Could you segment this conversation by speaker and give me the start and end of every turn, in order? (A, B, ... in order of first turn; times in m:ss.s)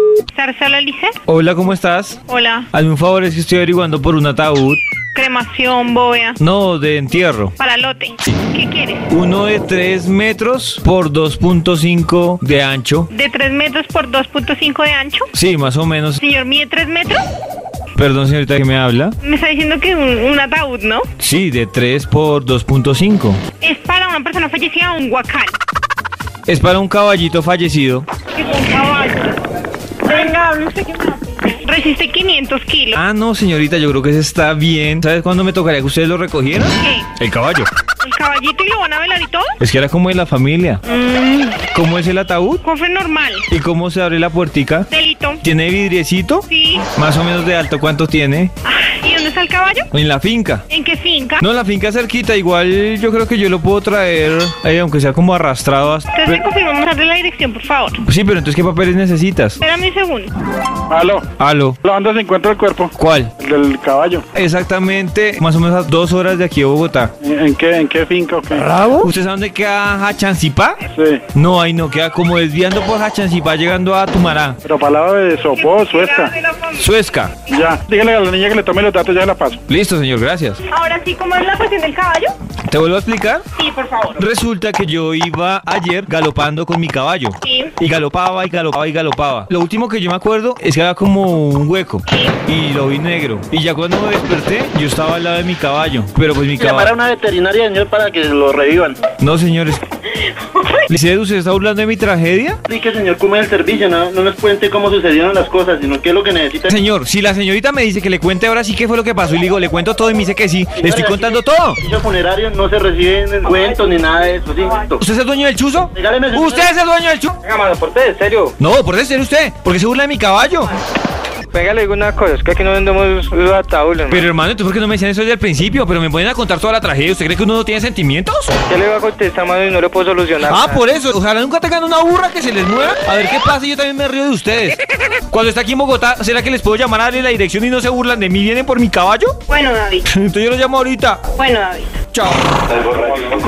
0:00.3-0:01.2 A
0:01.3-0:02.2 B
0:02.3-0:02.7 A
0:02.7-0:04.8 B
0:05.1-0:06.4 A
0:06.4-0:07.5 B
0:07.6-0:09.1 A
0:09.1-0:13.1 B
0:13.1-0:15.3 A
0:15.4-0:16.2 B
0:16.2-0:17.2 A
0:18.0-0:19.2 B
0:19.2-0:21.1 A
0:21.2-0:23.4 B
0:23.6-0:25.6 A
0:26.5-0:28.1 B
0:28.4-0:29.3 A
0:30.0-0:33.0 A
0:33.0-0:37.7 B
0:36.8-0:37.1 A
0:38.0-0:39.5 A
0:39.6-0:40.8 B
0:40.9-0:41.6 A
0:41.7-0:42.6 B
0:42.6-0:43.5 A
0:43.5-0:44.9 B
0:44.9-0:45.4 A
0:45.4-0:48.5 B
0:46.5-0:46.9 A
0:48.7-0:49.9 A
0:49.9-0:50.6 B
0:50.7-0:51.4 A
0:51.4-0:56.4 B
0:56.1-0:58.0 A
0:58.0-0:59.6 B
0:59.6-1:00.3 A
1:00.9-1:01.3 C
1:01.4-1:01.8 B
1:01.8-1:04.2 C
1:03.0-1:03.3 B
1:04.3-1:07.1 B
1:07.2-1:08.9 C
1:08.9-1:10.8 B
1:10.9-1:11.2 C
1:11.3-1:14.6 B
1:14.6-1:16.3 C
1:15.6-1:16.8 A
1:16.8-1:17.3 B
1:17.5-1:19.6 C
1:19.7-1:20.6 B
1:20.7-1:22.3 A
1:22.7-1:23.4 B
1:23.6-1:24.2 A
1:24.2-1:36.9 B
1:27.4-1:27.7 A
1:32.1-1:32.4 A
1:36.6-1:39.0 D
1:39.2-1:39.8 B
1:40.9-1:42.6 B
1:42.7-1:46.7 D
1:46.7-1:51.8 B
1:50.8-1:55.0 D
1:55.0-1:57.3 B
1:55.9-1:56.7 D
1:57.4-1:58.6 E
1:58.6-2:00.7 B
2:01.5-2:04.3 E
2:04.1-2:08.5 B
2:08.7-2:10.8 E
2:10.4-2:19.4 B
2:19.5-2:20.1 A
2:20.1-2:21.2 B
2:21.4-2:22.0 A
2:22.1-2:22.5 B